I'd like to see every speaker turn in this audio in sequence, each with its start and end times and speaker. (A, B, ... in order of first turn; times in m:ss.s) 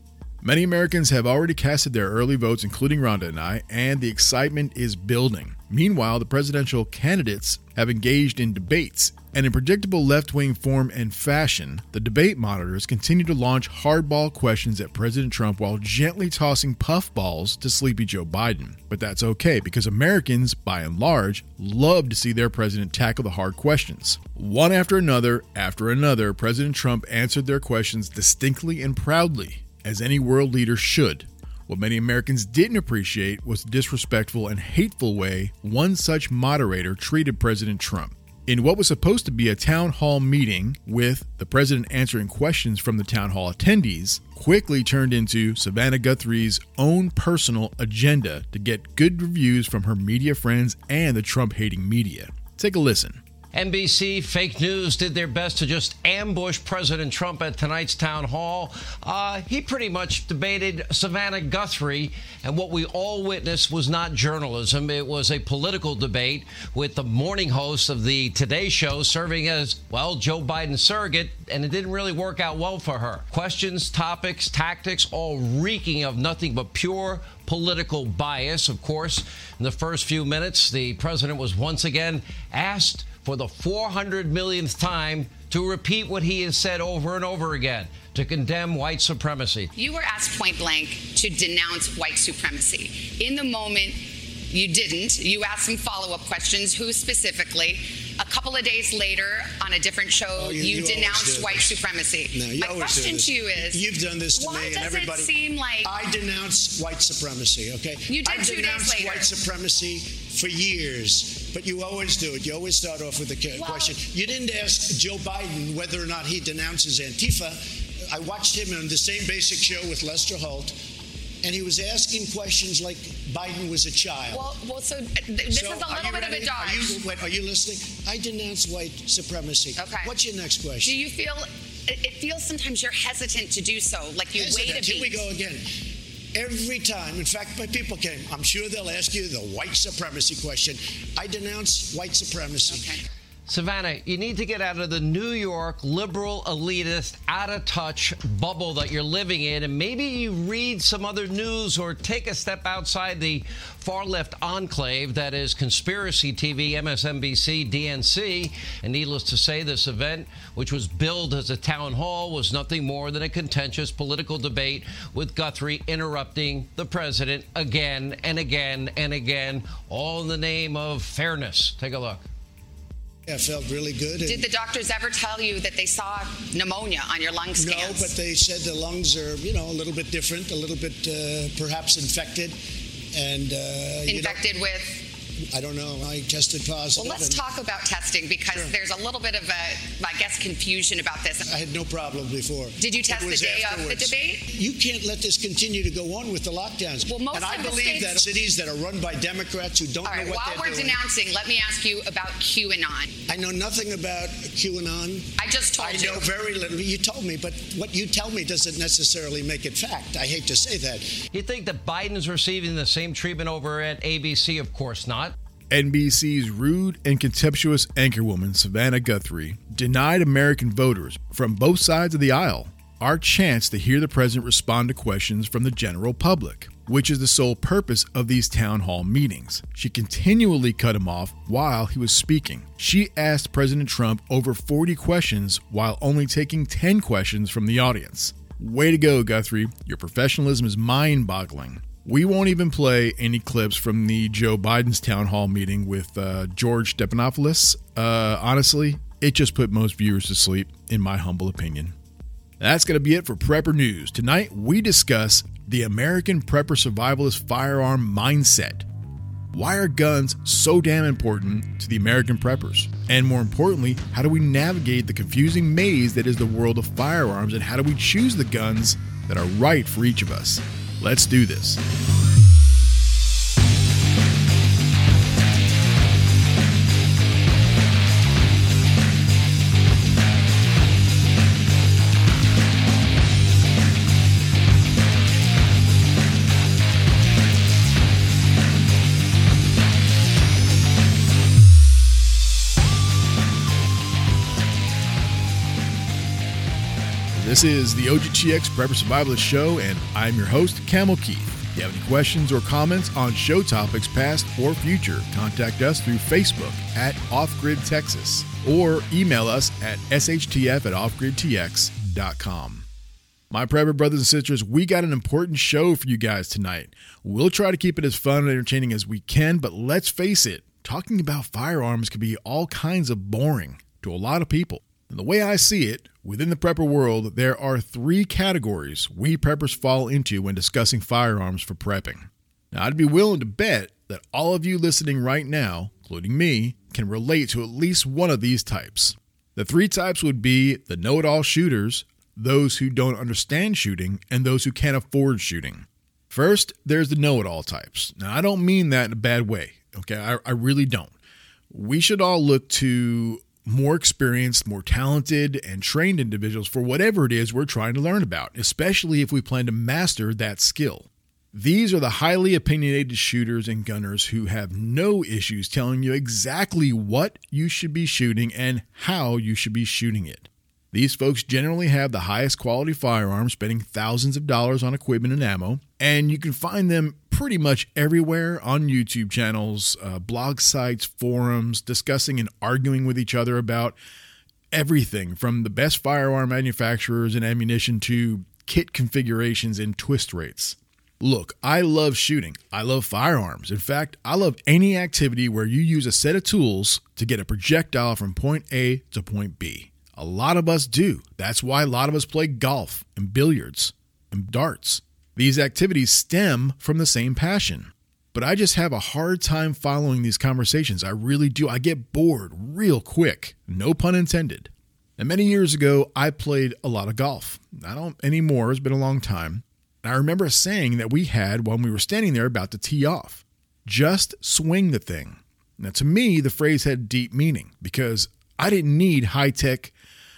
0:00.4-0:53.2 A
0:53.5-1:29.7 B
1:29.8-1:43.8 C
1:40.4-1:45.3 D
1:44.3-1:45.9 C
1:45.8-2:00.8 D
1:48.1-1:49.3 C
1:53.6-1:54.0 C
2:01.4-2:04.5 D
2:04.3-2:07.0 C
2:05.5-2:11.0 D
2:09.8-2:10.1 C
2:10.8-2:15.2 C
2:14.3-2:15.7 D
2:16.3-2:23.0 D
2:22.7-2:23.0 C
2:23.5-2:52.3 B
2:53.3-2:54.5 D
2:54.3-2:58.1 C
2:57.6-3:02.6 D
3:03.1-3:04.4 D
3:04.1-3:05.0 C
3:05.5-3:07.4 D
3:07.0-3:11.5 C
3:08.5-3:08.8 D
3:11.5-3:21.0 D
3:12.8-3:14.5 C
3:17.1-3:18.2 C
3:20.0-3:23.1 C
3:23.3-3:31.1 D
3:25.4-3:26.3 C
3:31.3-3:35.4 B
3:35.7-4:12.0 A
4:12.6-4:18.9 A
4:19.5-4:31.8 A
4:57.3-5:12.9 A
5:13.5-5:51.1 A
5:51.7-6:24.0 A
6:24.7-7:10.0 A